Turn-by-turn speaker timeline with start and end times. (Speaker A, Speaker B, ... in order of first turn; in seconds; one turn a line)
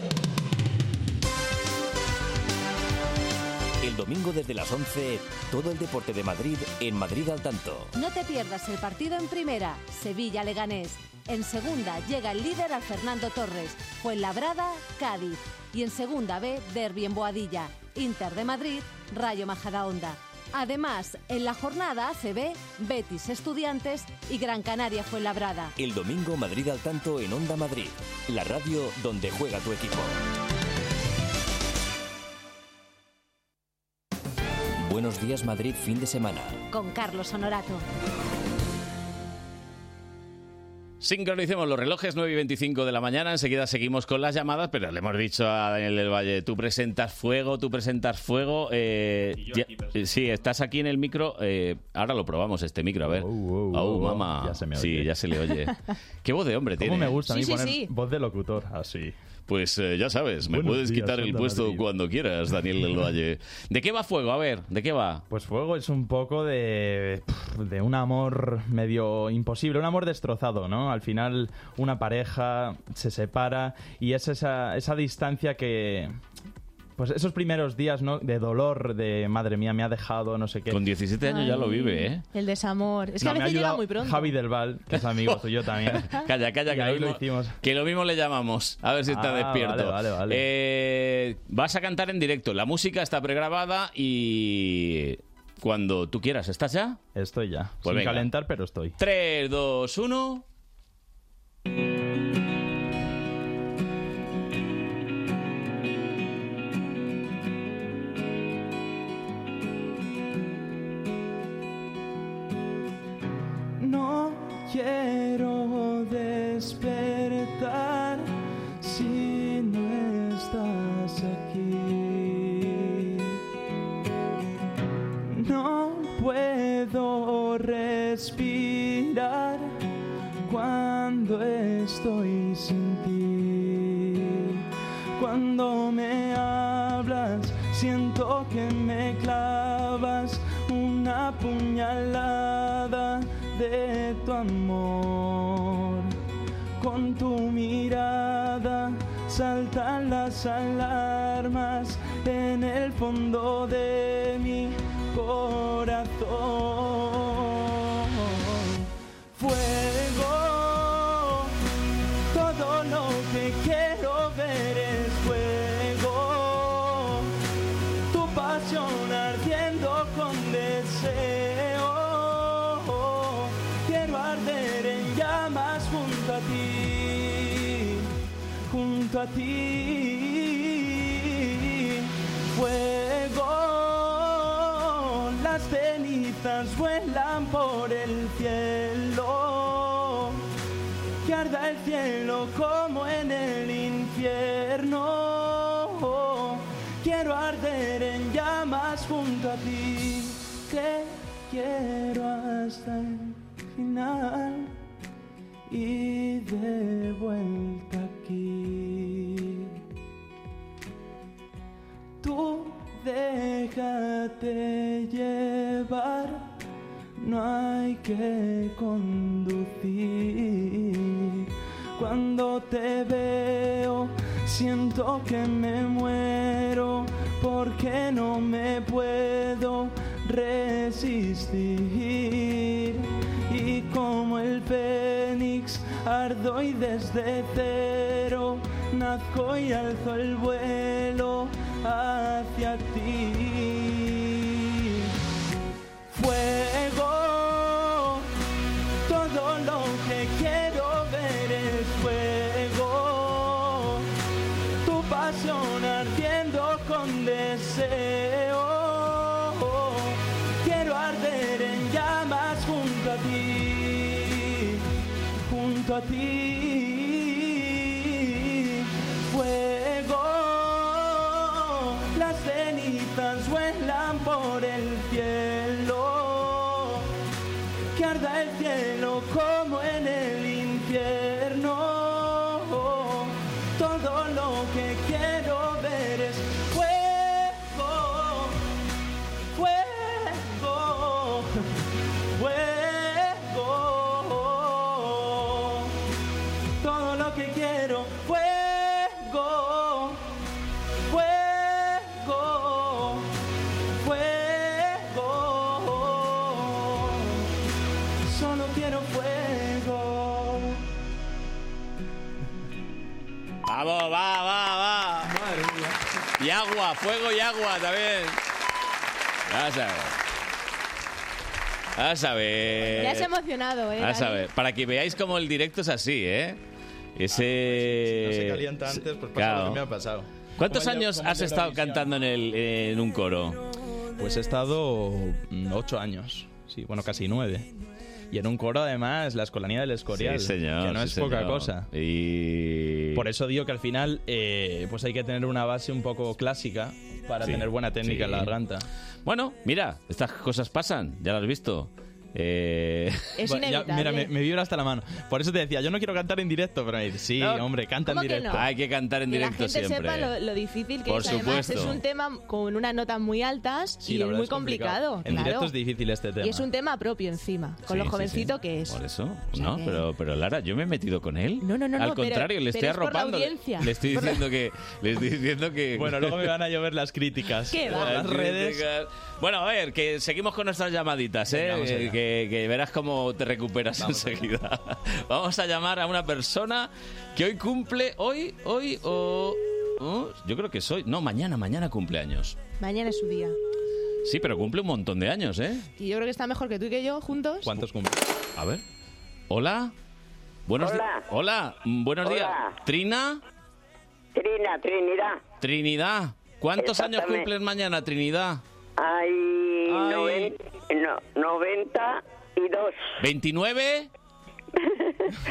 Speaker A: 3.8-7.9
Speaker B: 8.0-25.7
Speaker A: 25.8-30.2
Speaker A: 34.8-36.6
Speaker B: 36.7-37.8
Speaker C: 41.0-57.2
Speaker D: 53.1-55.1
Speaker D: 56.8-59.2
Speaker E: 57.3-57.9
Speaker C: 59.5-65.2
Speaker D: 60.5-61.8
Speaker D: 65.3-76.1
Speaker D: 77.0-80.8
Speaker C: 80.7-82.2
Speaker E: 81.2-84.3
Speaker D: 83.2-86.1
Speaker C: 85.9-97.0
Speaker D: 86.7-87.6
Speaker D: 89.1-90.5
Speaker D: 97.2-99.0
Speaker C: 97.8-98.3
Speaker C: 99.0-100.4
Speaker F: 113.8-123.4
Speaker F: 125.3-129.8
Speaker F: 130.5-134.6
Speaker F: 135.2-146.1
Speaker F: 146.8-161.5
Speaker F: 162.3-167.3
Speaker F: 168.1-178.1
Speaker F: 178.7-190.4
Speaker F: 191.2-204.7
Speaker F: 205.7-209.8
Speaker F: 212.2-216.5
Speaker F: 217.2-245.1
Speaker F: 246.1-248.3
Speaker F: 249.1-254.1
Speaker F: 254.8-264.8
Speaker F: 265.5-277.1
Speaker F: 277.9-288.6
Speaker F: 289.5-291.5
Speaker F: 292.4-296.0
Speaker F: 296.8-300.3
Speaker F: 301.1-303.3
Speaker F: 304.0-307.5
Speaker F: 308.2-310.8
Speaker C: 313.7-315.4
Speaker C: 316.4-318.4
Speaker C: 319.5-320.1
Speaker C: 322.0-323.3
Speaker E: 323.0-324.4
Speaker C: 324.0-326.6
Speaker C: 327.2-329.8
Speaker D: 327.3-332.1
Speaker C: 330.6-333.6
Speaker D: 334.2-337.7
Speaker D: 338.3-341.9
Speaker C: 340.1-343.2
Speaker D: 343.1-348.9
Speaker C: 347.4-348.5
Speaker C: 349.3-353.3
Speaker E: 353.4-354.3
Speaker D: 353.5-358.6
Speaker C: 357.4-357.7
Speaker E: 358.1-358.6
Speaker C: 358.5-360.3
Speaker E: 359.3-365.7
Speaker C: 361.1-362.0
Speaker D: 364.0-366.7
Speaker E: 366.4-369.0
Speaker C: 367.9-376.5
Speaker E: 369.5-370.0
Speaker E: 371.6-374.4
Speaker D: 375.9-378.8
Speaker E: 377.7-378.1
Speaker C: 377.9-392.6
Speaker D: 381.5-382.2
Speaker D: 384.0-384.5
Speaker E: 392.8-393.6
Speaker C: 394.2-395.9
Speaker E: 396.0-397.7
Speaker D: 397.6-398.2
Speaker C: 398.6-398.8
Speaker C: 399.5-399.9
Speaker C: 400.7-403.4
Speaker G: 400.8-401.2
Speaker G: 402.2-402.8
Speaker G: 404.4-405.4
Speaker C: 405.6-408.6
Speaker G: 406.8-407.5
Speaker G: 409.0-413.0
Speaker C: 409.9-410.5
Speaker C: 413.2-414.1
Speaker G: 414.8-415.3